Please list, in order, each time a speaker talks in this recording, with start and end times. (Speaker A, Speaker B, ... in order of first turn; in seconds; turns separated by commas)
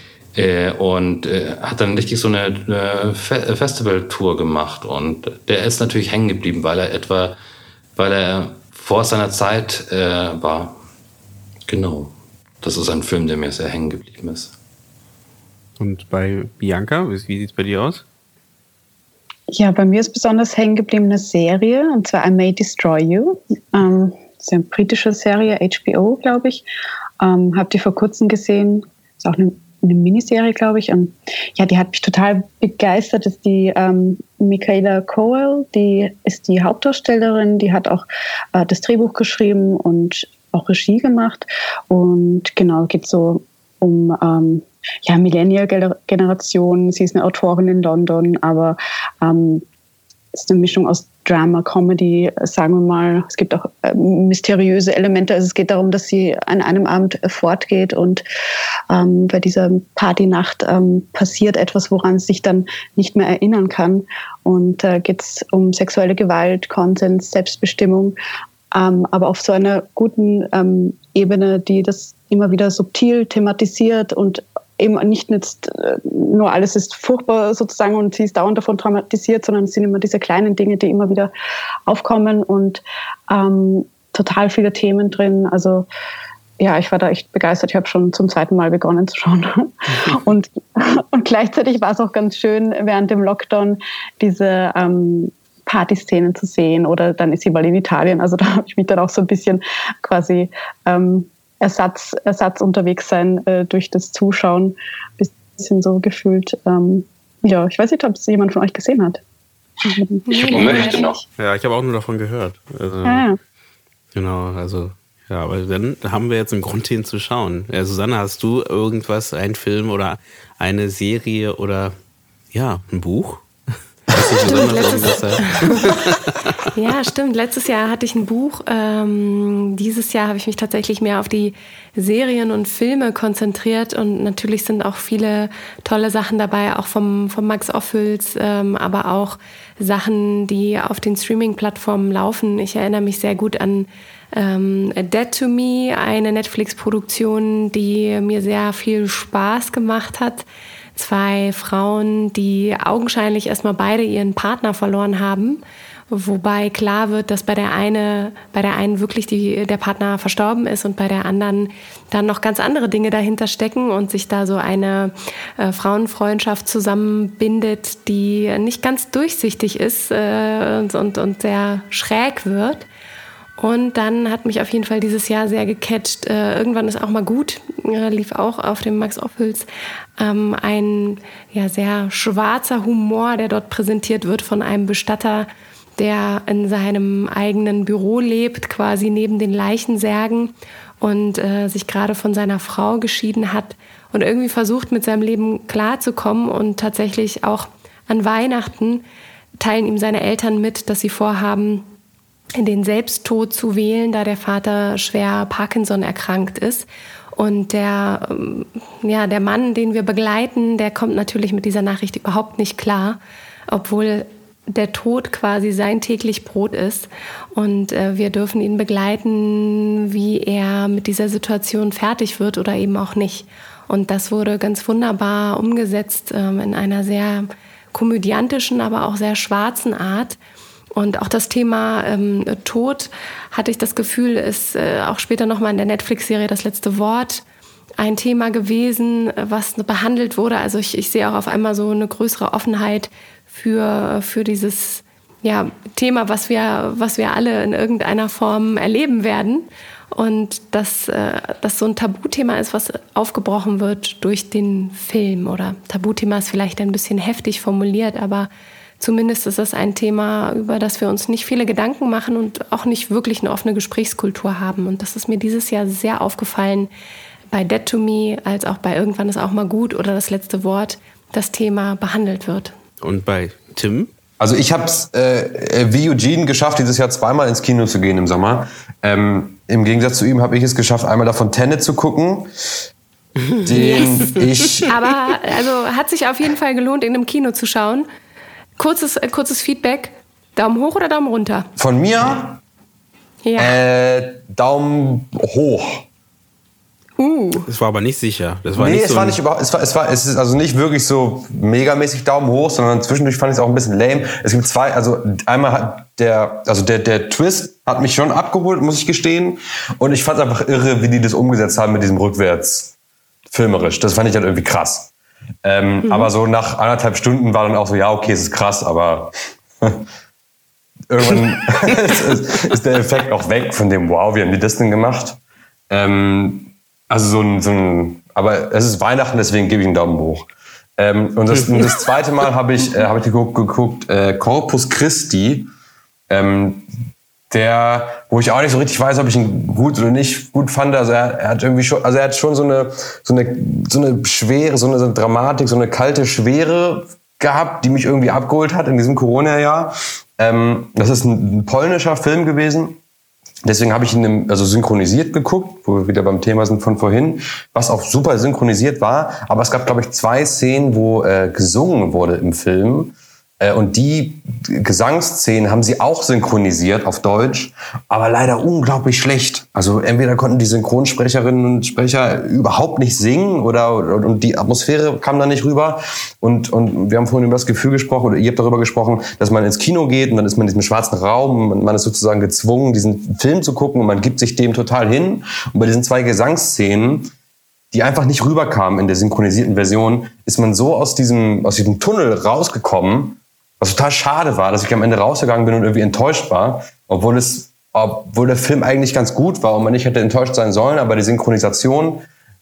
Speaker A: 0.3-7.4, Speaker A: 8.0-10.8, Speaker A: 11.7-14.5, Speaker B: 15.8-18.0, Speaker C: 19.5-26.6, Speaker C: 27.2-49.6, Speaker C: 50.3-58.2, Speaker C: 58.9-68.2, Speaker C: 68.7-81.3, Speaker C: 81.9-85.9, Speaker C: 86.6-109.2, Speaker C: 109.8-111.1, Speaker D: 110.3-111.0, Speaker B: 111.4-113.2, Speaker C: 113.0-113.4, Speaker B: 114.1-121.9, Speaker B: 122.5-123.5, Speaker B: 124.1-126.5, Speaker D: 124.4-126.0, Speaker D: 126.7-172.8, Speaker D: 173.6-179.7, Speaker D: 180.2-199.0, Speaker D: 199.6-201.8, Speaker D: 202.6-230.4, Speaker D: 230.9-237.4, Speaker D: 238.0-258.5, Speaker D: 259.0-266.9, Speaker D: 267.5-272.7, Speaker B: 273.0-274.1, Speaker E: 274.4-282.5, Speaker E: 283.6-284.9, Speaker D: 283.7-284.2, Speaker D: 284.9-288.1, Speaker D: 288.8-291.7, Speaker E: 291.8-292.6, Speaker D: 293.4-293.8, Speaker E: 293.6-296.0, Speaker D: 297.2-297.7, Speaker B: 297.6-299.4, Speaker E: 298.8-312.9, Speaker E: 313.5-315.1, Speaker E: 315.6-320.0, Speaker D: 316.0-316.3, Speaker E: 321.1-325.4, Speaker E: 325.9-335.7, Speaker B: 331.5-331.8, Speaker E: 336.3-336.9, Speaker E: 337.5-353.0, Speaker E: 353.6-387.3, Speaker E: 387.9-402.2